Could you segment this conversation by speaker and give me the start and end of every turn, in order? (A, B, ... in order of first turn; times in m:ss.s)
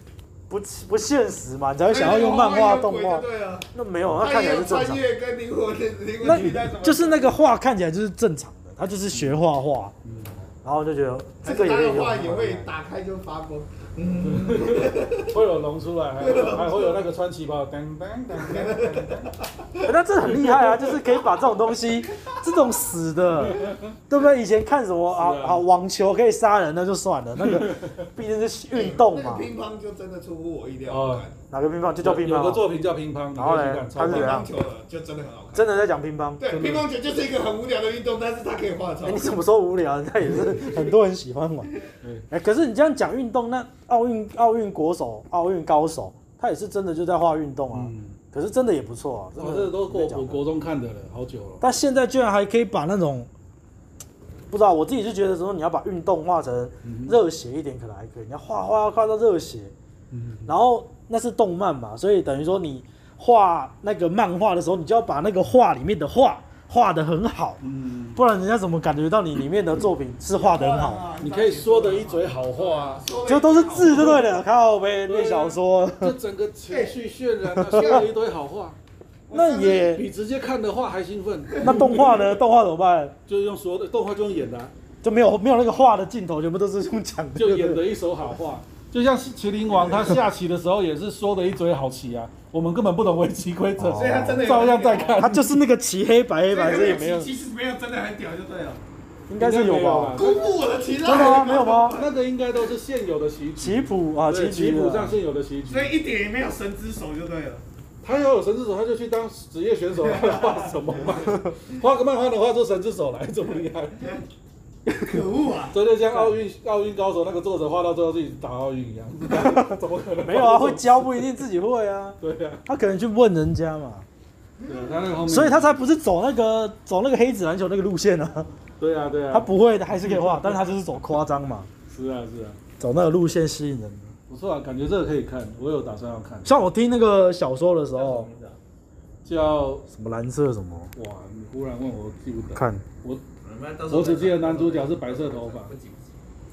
0:00.5-0:05.0 A
0:01.9-0:07.4 B
0:06.2-0:09.9 A
0:09.1-0:09.4 C
0:10.0-0:10.4 C
0:10.6-0:12.7 A
0:11.4-0:15.3 B
0:14.2-0:19.2 C
0:16.2-0:17.0 B
0:18.4-0:19.9 B
0:19.8-0:29.5 A
0:20.3-0:20.8 C
0:22.1-0:22.4 B
0:23.4-0:23.9 C
0:25.1-0:25.6 C
0:27.4-0:28.1 C
0:28.7-0:31.4 B
0:30.9-0:31.2 C
0:31.5-0:32.7 A
0:32.0-0:34.4 C
0:33.4-0:34.5 A
0:34.0-0:35.8 B
0:35.5-0:36.5 A
0:36.4-0:39.4 B
0:36.5-0:36.9 C
0:39.0-0:41.7 A
0:42.0-0:42.3 C
0:42.3-0:50.4 A
0:47.7-0:48.2 C
0:49.4-0:51.6 C
0:51.6-0:53.3 A
0:54.5-0:59.7 A
0:56.8-0:57.2 C
1:00.1-1:00.5 C
1:00.4-1:07.6 A
1:07.6-1:08.2 C
1:08.2-1:11.0 A
1:10.3-1:14.3 B
1:11.2-1:13.0 C
1:13.2-1:16.1 A
1:15.1-1:18.8 C
1:16.7-1:17.0 B
1:17.6-1:18.1 B
1:17.6-1:18.0 A
1:19.3-1:20.0 B
1:19.3-1:20.0 A
1:19.8-1:22.3 C
1:21.6-1:23.2 A
1:23.3-1:24.7 C
1:25.0-1:27.8 A
1:27.4-1:35.5 C
1:29.7-1:30.2 B
1:33.8-1:34.4 A
1:33.9-1:35.3 B
1:35.2-1:37.3 A
1:36.5-1:38.8 B
1:39.3-1:40.2 A
1:39.4-1:40.5 C
1:40.1-1:42.1 B
1:41.0-1:42.0 A
1:41.9-1:45.9 C
1:43.6-1:45.2 A
1:45.7-1:47.6 B
1:48.0-1:54.1 C
1:50.0-1:51.0 B
1:54.9-1:55.2 A
1:55.0-1:55.8 B
1:55.7-2:01.3 C
1:59.3-2:04.1 A
2:02.2-2:02.6 C
2:04.6-2:05.2 B
2:04.7-2:05.7 C
2:05.2-2:08.5 A
2:08.8-2:10.7 C
2:09.3-2:11.7 A
2:11.9-2:12.6 C
2:12.8-2:14.2 A
2:14.3-2:16.6 C
2:16.4-2:18.3 A
2:17.9-2:18.6 B
2:19.2-2:19.8 C
2:19.9-2:20.9 A
2:20.9-2:23.2 C
2:22.5-2:22.8 A
2:23.4-2:26.2 B
2:23.9-2:25.7 C